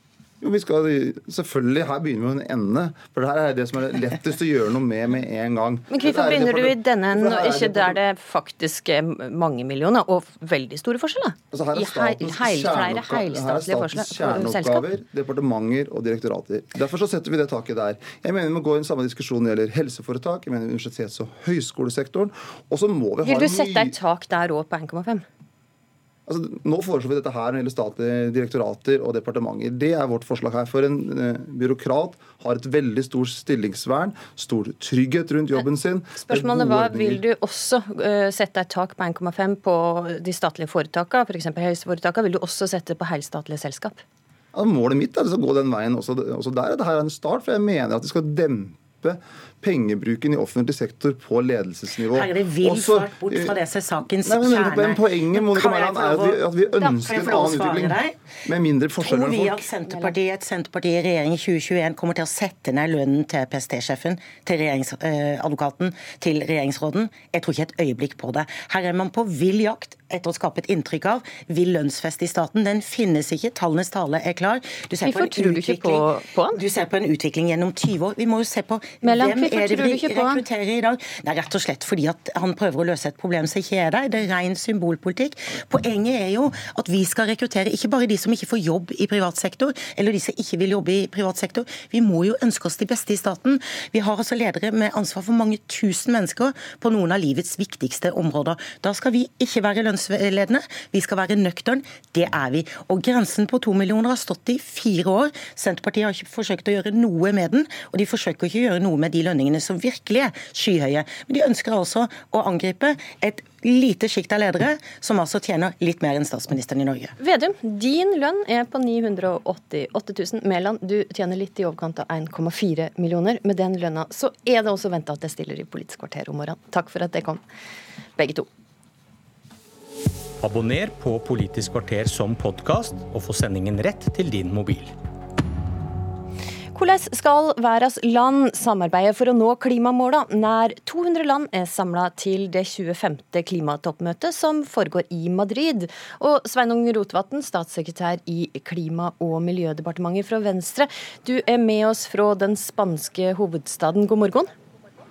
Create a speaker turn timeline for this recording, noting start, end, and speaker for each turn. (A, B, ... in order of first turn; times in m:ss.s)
0:00.4-0:08.0 A
0:05.9-0:14.9 B
0:11.5-0:24.0 A
0:23.2-0:25.2 B
0:26.2-0:37.2 A
0:36.2-0:44.0 B
0:44.5-0:53.6 A
0:52.0-0:58.1 C
0:54.3-0:59.7 A
0:59.0-1:57.1 C
1:15.0-1:16.6 B
1:19.0-1:20.4 B
1:57.2-2:07.4 B
2:08.2-2:08.5 B
2:10.4-2:14.9 D
2:16.7-2:34.5 B